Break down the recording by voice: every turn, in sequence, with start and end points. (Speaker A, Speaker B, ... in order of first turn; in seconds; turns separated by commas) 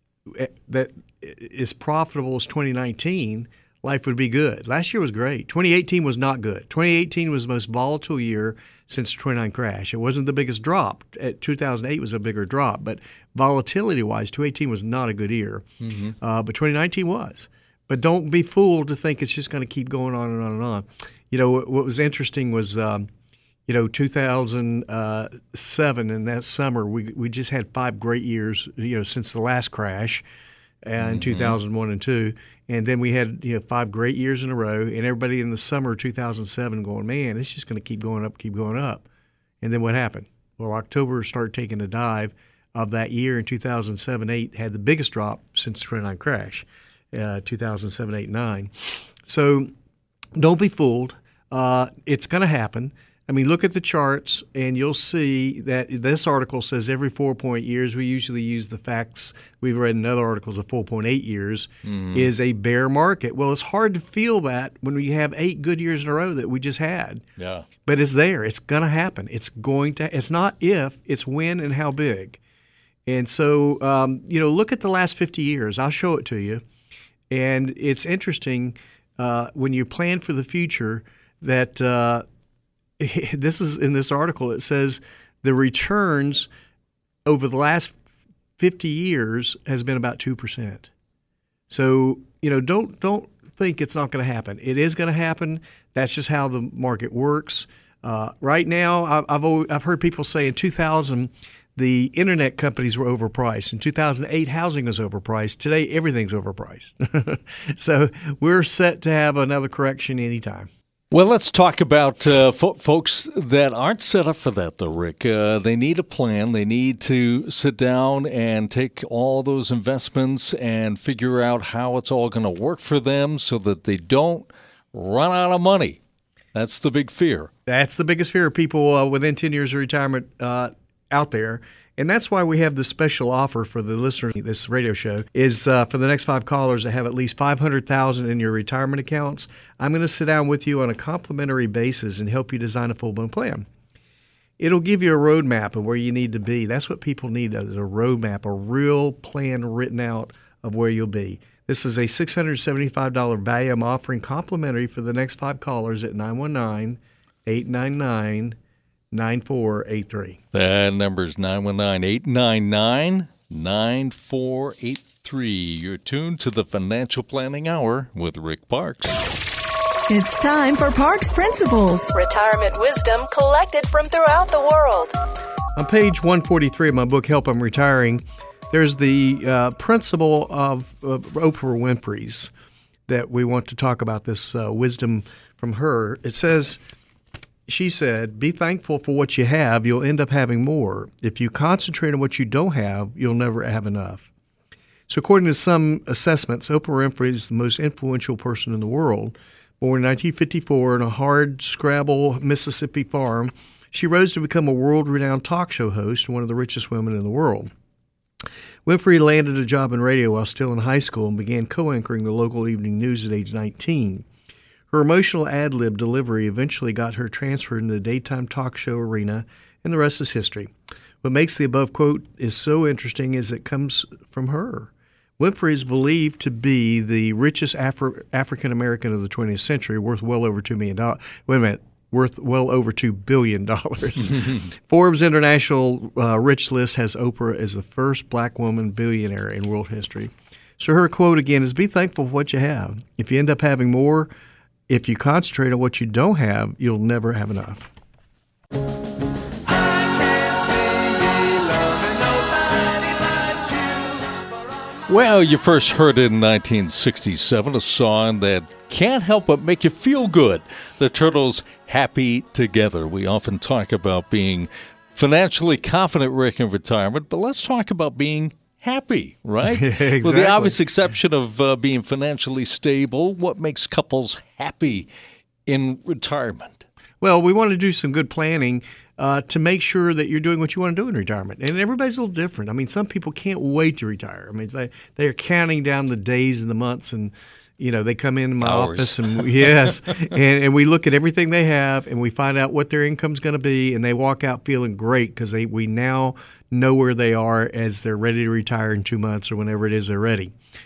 Speaker A: 0.3-15.7, Speaker B: 15.8-16.1, Speaker A: 16.2-23.1, Speaker A: 23.7-30.2, Speaker A: 30.9-39.0, Speaker B: 31.0-31.6, Speaker A: 39.6-48.7, Speaker A: 49.2-49.7, Speaker A: 50.4-67.2, Speaker B: 61.9-62.3, Speaker B: 67.4-67.7, Speaker A: 67.9-72.4, Speaker A: 73.1-76.6, Speaker A: 77.3-82.2, Speaker A: 83.0-86.5, Speaker A: 87.2-88.0, Speaker A: 88.6-90.9, Speaker A: 91.7-110.7, Speaker B: 111.1-126.0, Speaker B: 126.5-127.5, Speaker A: 127.7-143.7, Speaker A: 144.6-158.6, Speaker A: 159.1-160.4, Speaker B: 160.5-169.2, Speaker C: 170.1-175.2, Speaker A: 175.8-182.5, Speaker A: 183.1-186.8, Speaker A: 187.7-194.3, Speaker A: 195.1-207.7, Speaker A: 208.8-214.3, Speaker A: 214.9-244.3, Speaker A: 244.9-247.9, Speaker B: 255.1-275.1, Speaker A: 269.6-270.8, Speaker B: 275.7-276.8, Speaker A: 277.2-300.5, Speaker B: 288.6-290.3